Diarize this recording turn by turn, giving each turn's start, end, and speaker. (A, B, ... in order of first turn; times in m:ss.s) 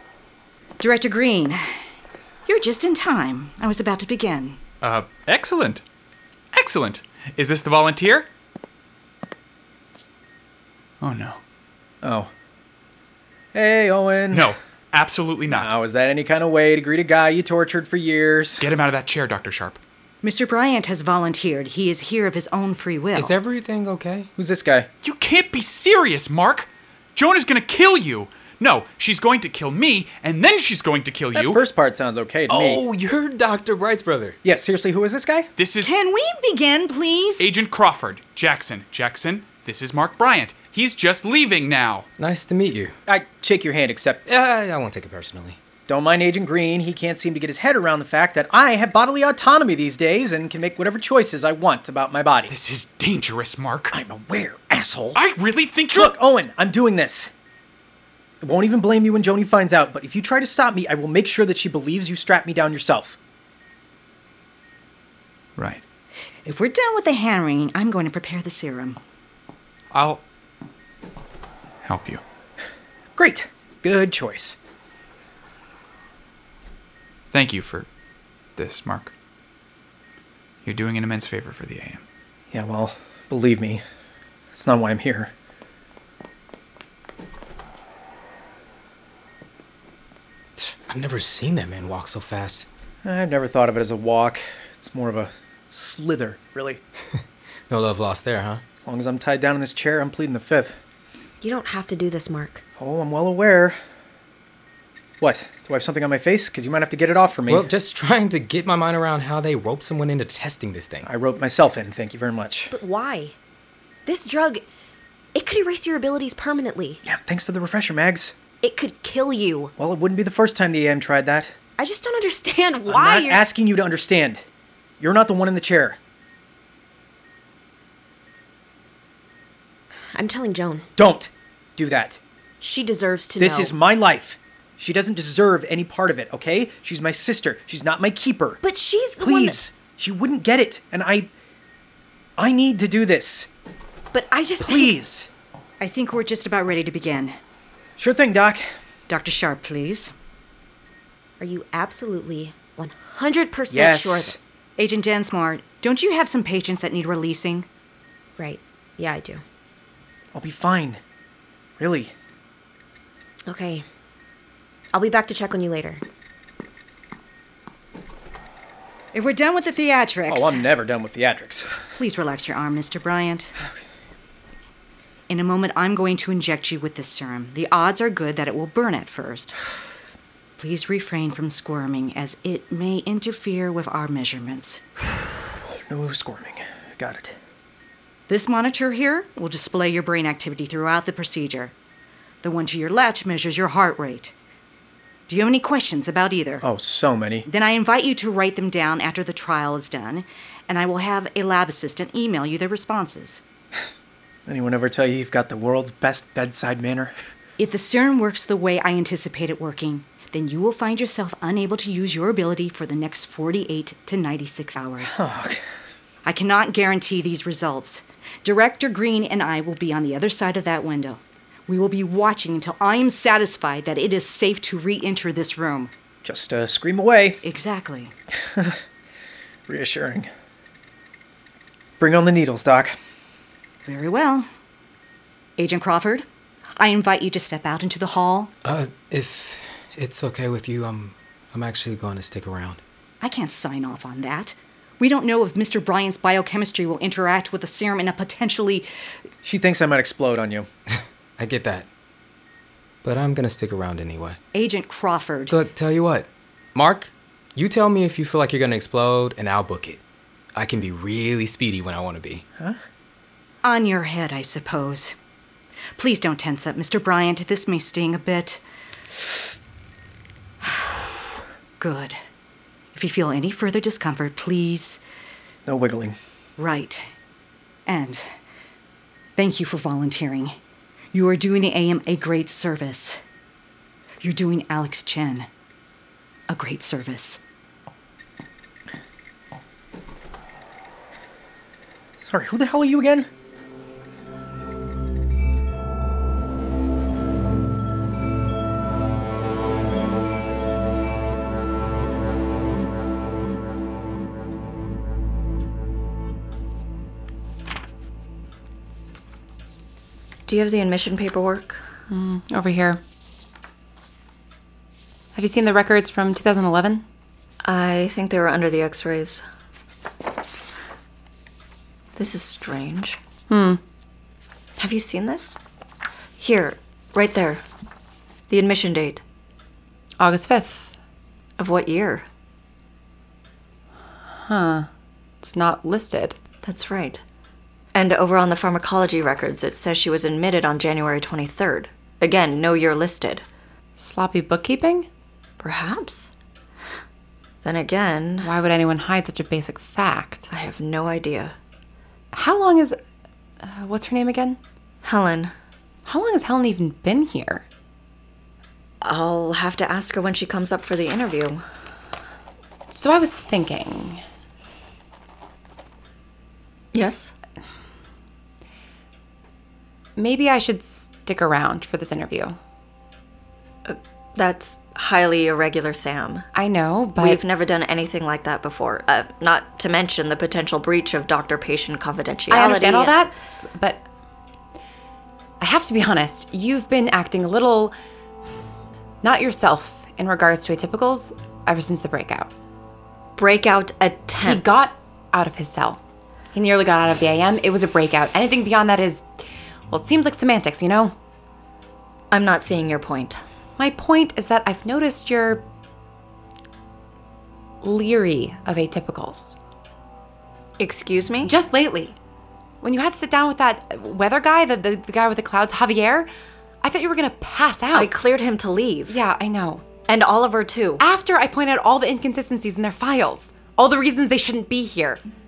0:00.8-0:01.6 A
0:02.5-0:04.6 A
0:04.8-0:05.8 B
0:06.5-0:08.2 B
0:11.0-0:11.4 B
0:12.0-0:12.3 C
0:13.5-0:14.5 C
0:14.3-0:15.7 B
0:15.5-0:18.6 C
0:18.6-0:19.8 B
0:20.2-0:23.4 A
0:23.1-0:24.3 D
0:24.4-0:24.9 C
0:25.0-0:31.6 B
0:31.4-0:32.8 C
0:32.5-0:34.4 D
0:34.4-0:35.5 C
0:35.6-0:35.9 B
0:35.8-0:37.5 A
0:37.4-0:42.1 B
0:42.2-0:43.0 D
0:43.1-0:44.2 C
0:44.2-0:45.6 D
0:45.9-0:52.5 C
0:52.5-0:54.0 B
0:53.9-0:55.2 C
0:55.1-0:56.2 B
0:55.9-0:57.3 C
0:58.4-1:03.2 C
1:05.6-1:05.8 B
1:06.4-1:09.0 A
1:09.9-1:10.2 B
1:11.8-1:12.2 B
1:13.2-1:14.6 C
1:17.3-1:17.9 B
1:18.6-1:19.1 B
1:20.6-1:22.0 B
1:22.5-1:23.8 C
1:24.5-1:25.3 C
1:30.6-1:32.7 D
1:33.0-1:36.8 C
1:37.1-1:38.6 D
1:38.8-1:40.8 C
1:41.4-1:42.6 E
1:42.8-1:43.8 C
1:45.2-1:47.7 C
1:47.5-1:51.1 D
1:51.0-1:52.7 C
1:52.7-1:53.4 E
1:54.0-1:54.6 E
1:55.3-1:57.0 E
1:57.0-1:58.3 C
1:58.6-1:59.7 E
1:59.8-2:01.5 C
2:01.8-2:03.4 E
2:02.9-2:04.4 C
2:05.0-2:06.0 C
2:10.1-2:10.9 E
2:11.0-2:12.2 C
2:12.6-2:13.8 E
2:13.4-2:18.6 C
2:18.6-2:19.6 E
2:19.2-2:21.3 C
2:22.4-2:23.5 C
2:24.1-2:25.0 E
2:24.6-2:25.3 C
2:25.8-2:27.3 A
2:28.0-2:28.6 C
2:29.1-2:30.1 A
2:31.4-2:34.4 E
2:33.7-2:34.4 C
2:34.8-2:37.7 A
2:38.4-2:39.4 E
2:40.4-2:41.0 C
2:41.8-2:42.1 C
2:43.5-2:43.8 E
2:44.9-2:46.0 E
2:49.1-2:50.6 A
2:50.3-2:51.7 C
2:52.0-2:53.5 A
2:55.3-2:59.6 A
3:00.6-3:04.8 A
3:05.9-3:07.4 C
3:08.3-3:11.7 A
3:12.4-3:14.3 A
3:15.3-3:16.7 A
3:16.6-3:17.5 C
3:17.4-3:23.4 A
3:24.5-3:27.1 C
3:27.6-3:35.2 A
3:35.1-3:35.6 C
3:36.2-3:45.9 A
3:46.2-3:47.4 C
3:47.4-3:48.1 A
3:48.5-3:48.8 C
3:49.7-3:50.3 C
3:52.0-3:52.9 C
3:53.8-3:54.5 A
3:55.6-3:56.2 A
3:56.8-3:58.5 A
3:58.6-4:02.8 D
4:03.2-4:08.9 A
4:09.4-4:10.7 C
4:11.4-4:11.9 D
4:13.0-4:14.4 D
4:14.5-4:15.6 A
4:15.5-4:20.0 D
4:20.5-4:22.4 D
4:23.6-4:25.1 A
4:26.0-4:28.6 A
4:30.6-4:31.1 A
4:31.8-4:32.2 A
4:32.9-4:35.0 A
4:35.6-4:36.2 C
4:36.6-4:37.0 A
4:37.9-4:38.2 A
4:39.4-4:40.6 A
4:41.1-4:43.2 A
4:44.2-4:45.5 A
4:46.5-4:47.4 A
4:52.3-4:53.3 C
5:10.5-5:11.8 F
5:12.1-5:13.0 G
5:15.4-5:17.0 G
5:17.6-5:19.4 F
5:22.2-5:23.2 F
5:23.5-5:23.8 G
5:24.8-5:25.6 F
5:26.4-5:27.6 F
5:28.5-5:29.2 F
5:30.2-5:30.9 G
5:31.6-5:32.2 F
5:34.3-5:34.9 G
5:35.4-5:36.4 G
5:36.6-5:37.2 F
5:37.9-5:43.4 F
5:44.0-5:45.1 G
5:45.6-5:46.3 F
5:47.6-5:48.5 F
5:48.4-5:50.5 G
5:50.5-5:51.5 F
5:52.3-5:53.0 G
5:53.6-5:54.6 G
5:55.0-5:55.5 F
5:56.0-5:57.6 G
5:59.0-6:01.6 F
6:02.9-6:04.2 G
6:06.9-6:07.3 F
6:10.2-6:12.6 G
6:13.9-6:16.5 F
6:16.5-6:17.4 G
6:17.2-6:23.2 F
6:22.5-6:24.0 G
6:25.6-6:28.0 G
6:29.2-6:32.5 G
6:33.4-6:34.6 F
6:34.4-6:36.0 G
6:36.5-6:39.3 G
6:39.9-6:41.1 G
6:42.3-6:43.4 F
6:43.8-6:45.6 G
6:47.8-6:49.6 G
6:50.8-6:51.5 F
6:51.4-6:52.2 G
6:52.8-6:56.3 G
6:56.8-6:58.1 G
6:57.9-6:59.2 F
6:59.1-6:59.8 G
7:00.1-7:01.0 F
7:01.0-7:05.2 G